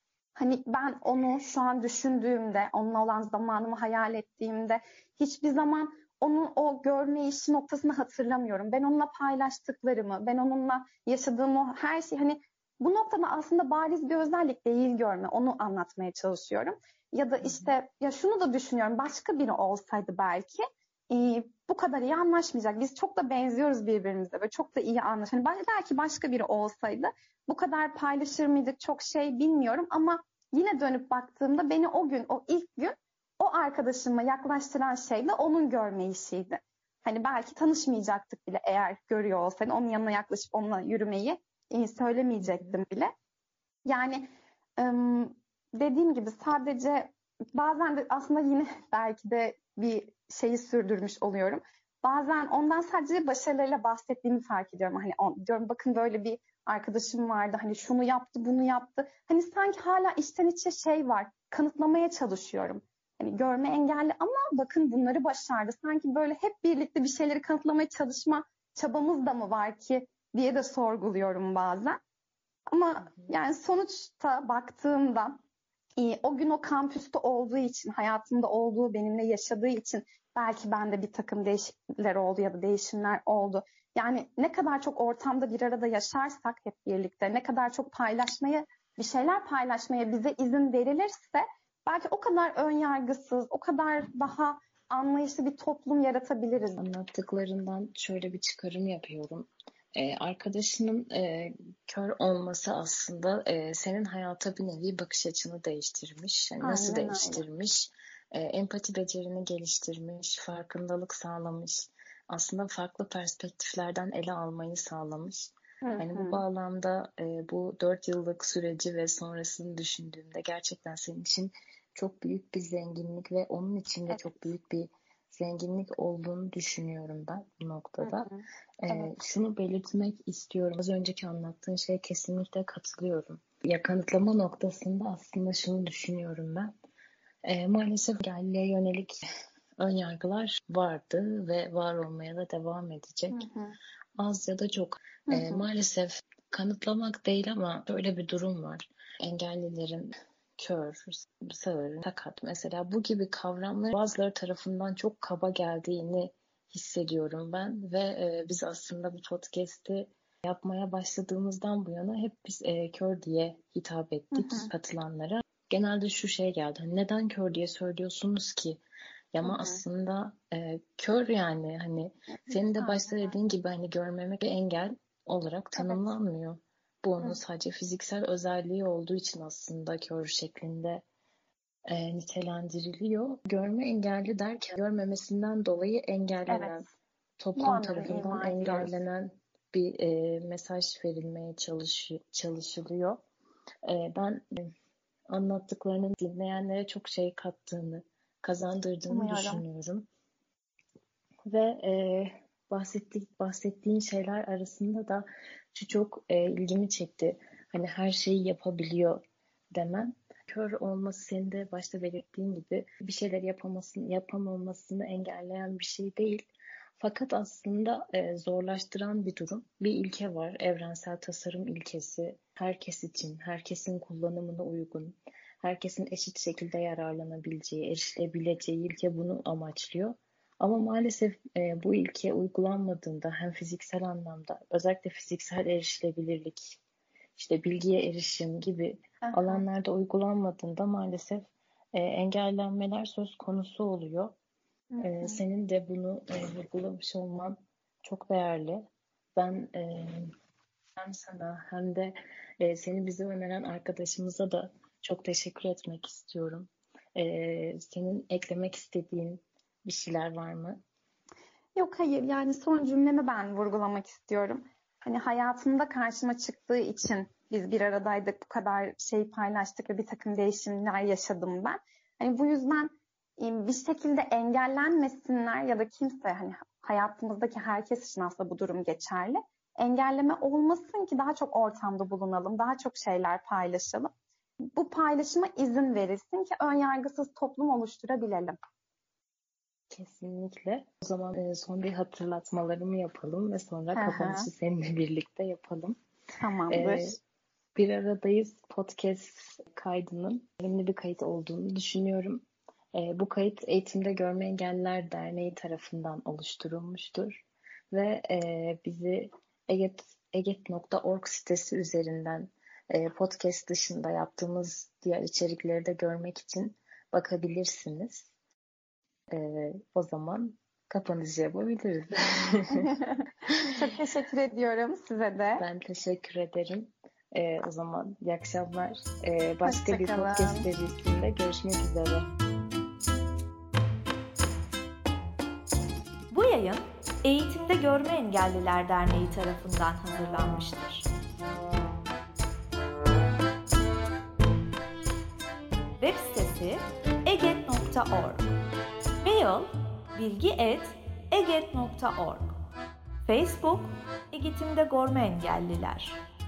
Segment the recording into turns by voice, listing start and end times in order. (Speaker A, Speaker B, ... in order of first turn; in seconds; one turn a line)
Speaker A: 0.4-43.1
Speaker B: 17.4-17.7
Speaker A: 43.9-72.0
Speaker A: 72.7-75.4
Speaker A: 76.0-96.8
Speaker B: 96.8-128.3
Speaker A: 106.6-107.4
Speaker A: 115.8-116.4
Speaker A: 128.0-129.1
Speaker B: 128.8-136.7
Speaker B: 137.4-139.2
Speaker B: 139.8-143.5
Speaker A: 143.3-143.8
Speaker B: 144.2-168.8
Speaker A: 145.3-145.7
Speaker A: 164.3-164.7
Speaker B: 169.3-181.0
Speaker A: 169.4-169.8
Speaker A: 172.5-173.3
Speaker A: 175.8-176.1
Speaker B: 181.9-186.9
Speaker A: 186.5-186.9
Speaker B: 187.4-193.2
Speaker A: 187.6-188.9
Speaker B: 193.8-194.7
Speaker B: 195.3-200.1
Speaker A: 199.1-199.6
Speaker B: 201.5-209.2
Speaker B: 209.7-216.5
Speaker B: 217.0-236.8
Speaker B: 237.4-244.3
Speaker A: 239.2-239.6
Speaker A: 244.9-245.4
Speaker B: 245.0-248.8
Speaker B: 249.4-250.3
Speaker B: 251.0-260.8
Speaker A: 261.8-284.1
Speaker A: 284.8-288.6
Speaker B: 289.9-296.0
Speaker A: 293.9-294.5
Speaker A: 296.4-297.2
Speaker B: 296.7-297.2
Speaker B: 297.8-318.3
Speaker B: 319.3-322.9
Speaker A: 322.7-325.6
Speaker B: 325.6-332.3
Speaker A: 329.6-330.7
Speaker C: 336.3-341.1
Speaker C: 346.0-348.5
Speaker C: 349.2-352.5
Speaker C: 353.2-356.2